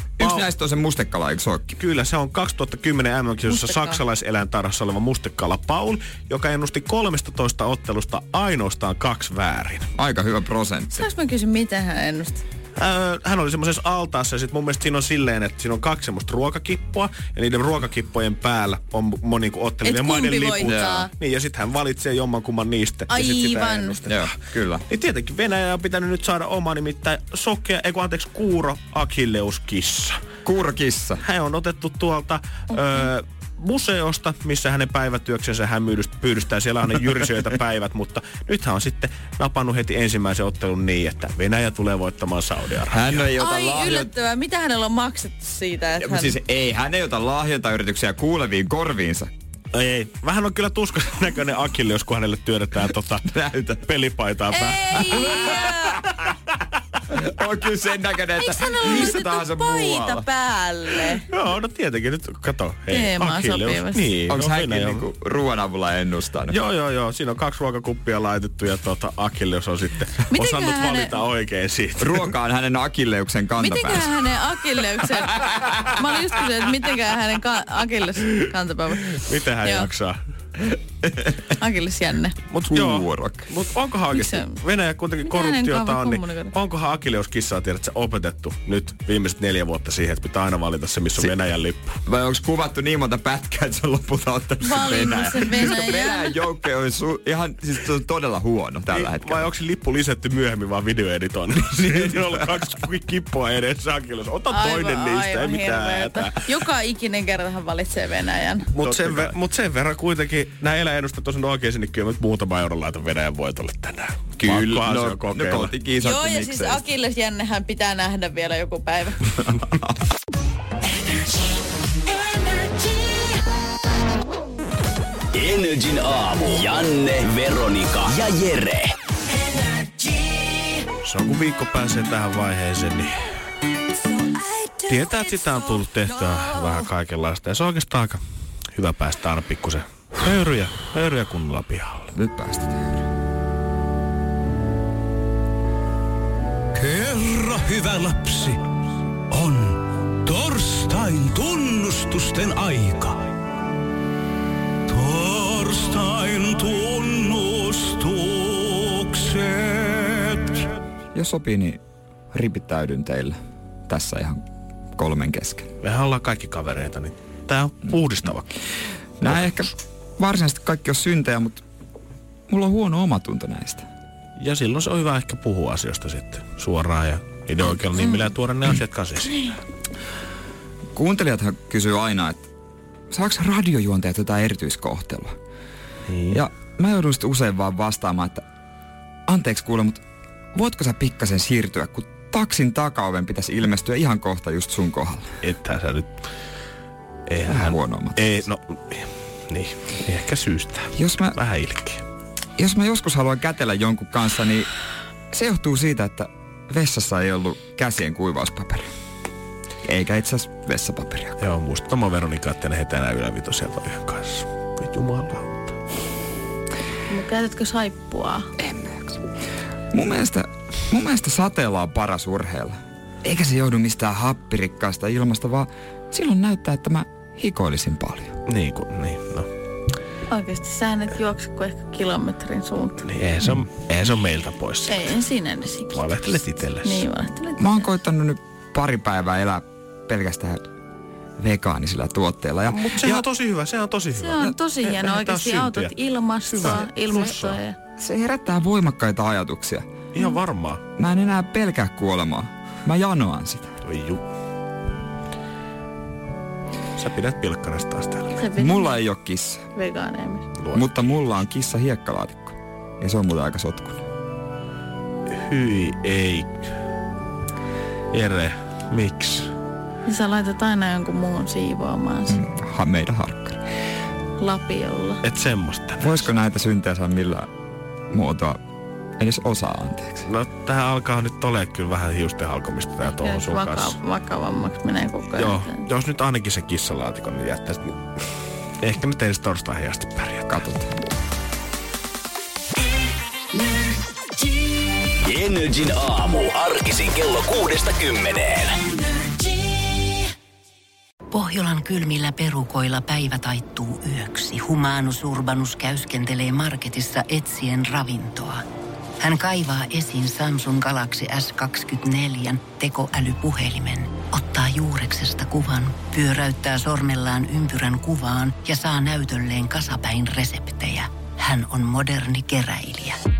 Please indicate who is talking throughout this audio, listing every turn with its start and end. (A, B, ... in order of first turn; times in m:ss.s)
0:00.2-0:01.7 A
0:00.2-0:00.5 B
0:01.8-0:09.9 B
0:03.5-0:04.0 C
0:09.9-0:11.1 A
0:10.9-0:12.4 C
0:12.8-0:24.3 B
0:19.8-0:21.1 C
0:20.6-0:21.1 A
0:23.1-0:24.0 C
0:24.1-0:24.8 A
0:24.9-0:30.1 B
0:30.4-0:31.2 A
0:31.2-0:43.3 B
0:42.9-0:44.1 A
0:43.4-0:46.4 C
0:46.0-0:49.3 A
0:49.7-0:53.2 B
0:53.3-0:53.8 A
0:53.8-0:55.5 B
0:54.5-0:56.0 C
0:55.1-0:55.6 A
0:57.1-1:00.2 A
0:58.4-1:01.2 C
1:01.3-1:05.0 B
1:02.9-1:04.1 C
1:04.3-1:06.6 A
1:06.5-1:12.3 B
1:10.3-1:11.2 C
1:12.0-1:14.3 A
1:13.6-1:19.9 C
1:19.2-1:20.2 B
1:21.5-1:22.4 C
1:22.5-1:32.0 B
1:22.7-1:23.5 A
1:24.1-1:24.6 C
1:25.2-1:26.5 C
1:32.0-1:39.5 A
1:34.6-1:36.4 C
1:38.9-1:46.4 B
1:41.8-1:42.2 A
1:44.5-1:48.7 C
1:48.7-1:55.7 B
1:48.8-1:49.3 A
1:54.4-1:56.8 A
1:56.0-1:59.3 C
1:59.5-1:59.9 A
2:05.3-2:08.9 D
2:11.0-2:13.4 B
2:14.9-2:18.2 B
2:18.7-2:22.1 B
2:22.1-2:22.9 A
2:26.7-2:28.7 E
2:29.3-2:33.3 E
2:34.9-2:40.7 E
2:41.1-2:41.8 A
2:42.3-2:43.3 A
2:43.9-2:44.4 A
2:45.0-2:45.7 A
2:45.8-2:48.5 B
2:49.2-2:51.6 A
2:52.5-2:53.8 A
2:54.4-2:59.5 B
3:01.0-3:02.4 A
3:03.1-3:05.3 A
3:06.1-3:06.4 B
3:06.3-3:08.4 A
3:09.3-3:10.0 A
3:10.5-3:15.2 A
3:15.4-3:16.1 B
3:17.3-3:22.0 B
3:17.5-3:18.2 A
3:21.0-3:21.4 A
3:22.6-3:24.7 A
3:25.3-3:28.8 A
3:29.8-3:31.4 A
3:31.4-3:35.7 B
3:37.1-3:38.5 C
3:38.6-3:39.2 A
3:39.9-3:48.3 A
3:48.5-3:49.5 B
3:50.3-3:53.0 C
3:53.0-3:55.2 B
3:54.9-3:56.1 C
3:55.9-3:57.1 B
3:56.8-3:57.9 C
3:57.6-4:00.7 A
4:01.4-4:03.2 A
4:02.7-4:06.0 B
4:04.2-4:07.8 C
4:06.5-4:07.6 B
4:08.0-4:09.8 A
4:10.1-4:10.8 B
4:11.0-4:13.8 A
4:13.8-4:14.2 B
4:17.0-4:18.4 B
4:18.3-4:19.0 C
4:18.6-4:19.6 A
4:19.7-4:20.5 C
4:20.6-4:20.9 B
4:20.7-4:24.0 A
4:25.3-4:26.5 B
4:28.1-4:29.5 B
4:30.0-4:32.4 C
4:32.3-4:33.6 A
4:34.4-4:35.2 C
4:35.2-4:36.3 B
4:36.0-4:37.5 A
4:38.1-4:38.6 A
4:39.2-4:40.2 A
4:40.2-4:44.0 B
4:43.1-4:45.8 C
4:45.4-4:48.0 B
4:48.8-4:50.6 B
4:50.5-4:50.9 A
4:55.2-4:58.8 D
5:01.6-5:08.4 F
5:09.4-5:23.0 F